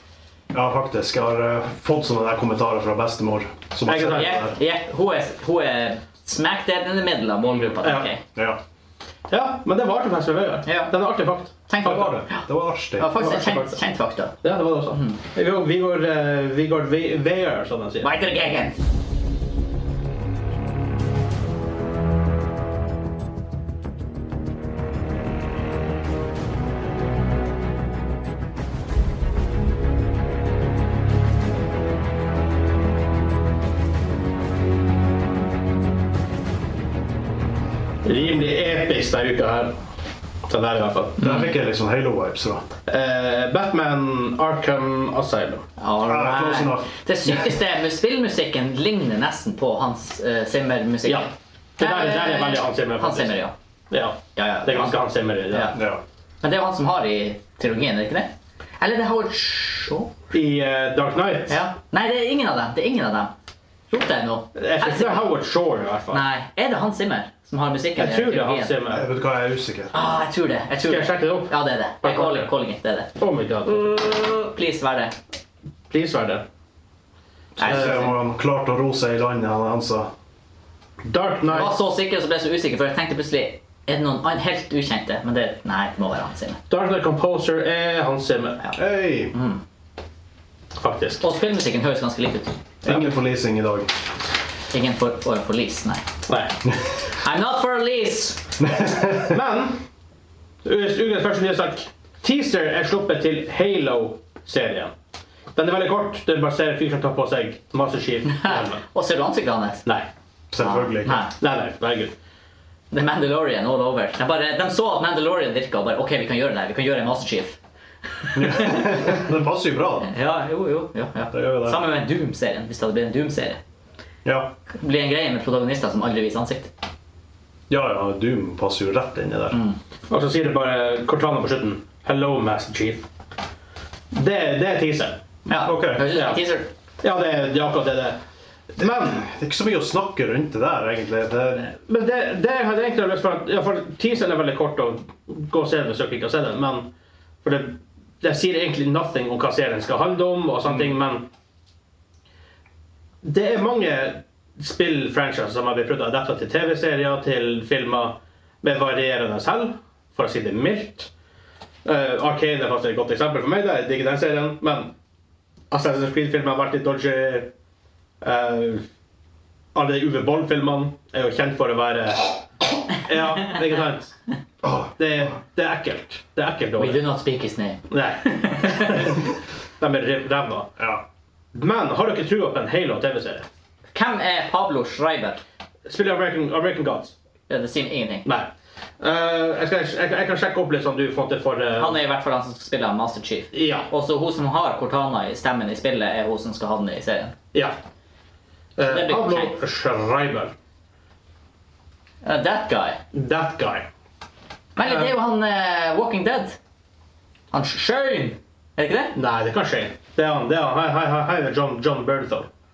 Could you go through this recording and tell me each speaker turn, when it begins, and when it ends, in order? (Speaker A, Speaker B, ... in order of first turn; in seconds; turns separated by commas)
Speaker A: 0.5-4.6, Speaker B: 3.9-4.5, Speaker C: 4.0-8.2, Speaker B: 7.8-8.1, Speaker A: 8.3-8.6, Speaker B: 9.3-12.1, Speaker C: 10.7-10.9, Speaker C: 11.7-14.3, Speaker A: 11.8-13.1, Speaker B: 13.2-13.8, Speaker B: 14.4-18.1, Speaker C: 14.9-15.2, Speaker C: 18.0-18.8, Speaker B: 38.0-39.8, Speaker B: 40.5-41.3, Speaker A: 41.2-42.7, Speaker C: 41.2-41.5, Speaker B: 42.9-45.6, Speaker C: 45.8-53.5, Speaker A: 46.1-47.4, Speaker B: 51.1-53.4, Speaker B: 53.9-55.8, Speaker C: 54.4-55.0, Speaker C: 55.5-55.8, Speaker A: 55.7-56.0, Speaker C: 56.4-60.1, Speaker B: 60.3-61.6, Speaker C: 61.5-63.3, Speaker C: 63.9-65.3, Speaker B: 64.5-66.2, Speaker C: 66.1-68.8, Speaker B: 68.0-69.1, Speaker A: 68.9-70.2, Speaker C: 69.9-73.1, Speaker B: 70.8-72.5, Speaker B: 73.2-74.0, Speaker C: 73.7-75.2, Speaker B: 75.9-76.4, Speaker A: 77.6-80.1, Speaker C: 77.6-78.1, Speaker B: 77.7-78.0, Speaker B: 81.0-81.8, Speaker C: 81.5-86.6, Speaker B: 86.7-88.6, Speaker A: 88.8-89.3, Speaker C: 89.3-89.6, Speaker B: 90.8-91.2, Speaker C: 91.2-93.0, Speaker A: 92.8-93.9, Speaker C: 94.7-96.0, Speaker B: 96.3-96.5, Speaker C: 97.1-98.5, Speaker A: 98.6-99.4, Speaker B: 99.2-99.8, Speaker B: 100.6-104.9, Speaker B: 105.5-108.8, Speaker C: 108.3-109.8, Speaker A: 110.5-111.3, Speaker C: 110.6-111.3, Speaker B: 111.4-112.1, Speaker C: 112.9-117.6, Speaker C: 118.2-119.2, Speaker A: 118.3-120.1, Speaker C: 120.1-123.6, Speaker A: 121.3-121.8, Speaker A: 124.2-124.5, Speaker C: 124.7-126.7, Speaker A: 127.7-129.6, Speaker C: 129.5-129.8, Speaker B: 130.1-133.1, Speaker B: 134.1-135.2, Speaker C: 135.5-136.7, Speaker A: 135.6-136.1, Speaker B: 136.0-136.4, Speaker B: 137.0-138.2, Speaker B: 138.8-139.3, Speaker A: 138.8-141.7, Speaker B: 141.8-146.9, Speaker B: 147.4-151.3, Speaker B: 153.2-161.1, Speaker B: 161.8-164.9, Speaker B: 165.7-167.5, Speaker B: 168.2-168.8, Speaker B: 169.7-172.3, Speaker B: 172.9-174.1, Speaker A: 174.6-174.9, Speaker B: 175.0-177.0, Speaker C: 176.8-179.2, Speaker B: 177.9-180.7, Speaker A: 180.8-181.0, Speaker B: 181.5-183.5, Speaker C: 183.9-185.4, Speaker B: 185.9-187.1, Speaker C: 187.5-188.3, Speaker B: 188.2-192.0, Speaker C: 191.8-197.3, Speaker B: 193.5-193.9, Speaker B: 198.8-200.5, Speaker C: 198.8-199.6, Speaker C: 202.2-203.0, Speaker B: 203.1-203.9, Speaker C: 204.8-206.6, Speaker B: 204.8-205.1, Speaker C: 207.5-209.1, Speaker B: 209.2-212.5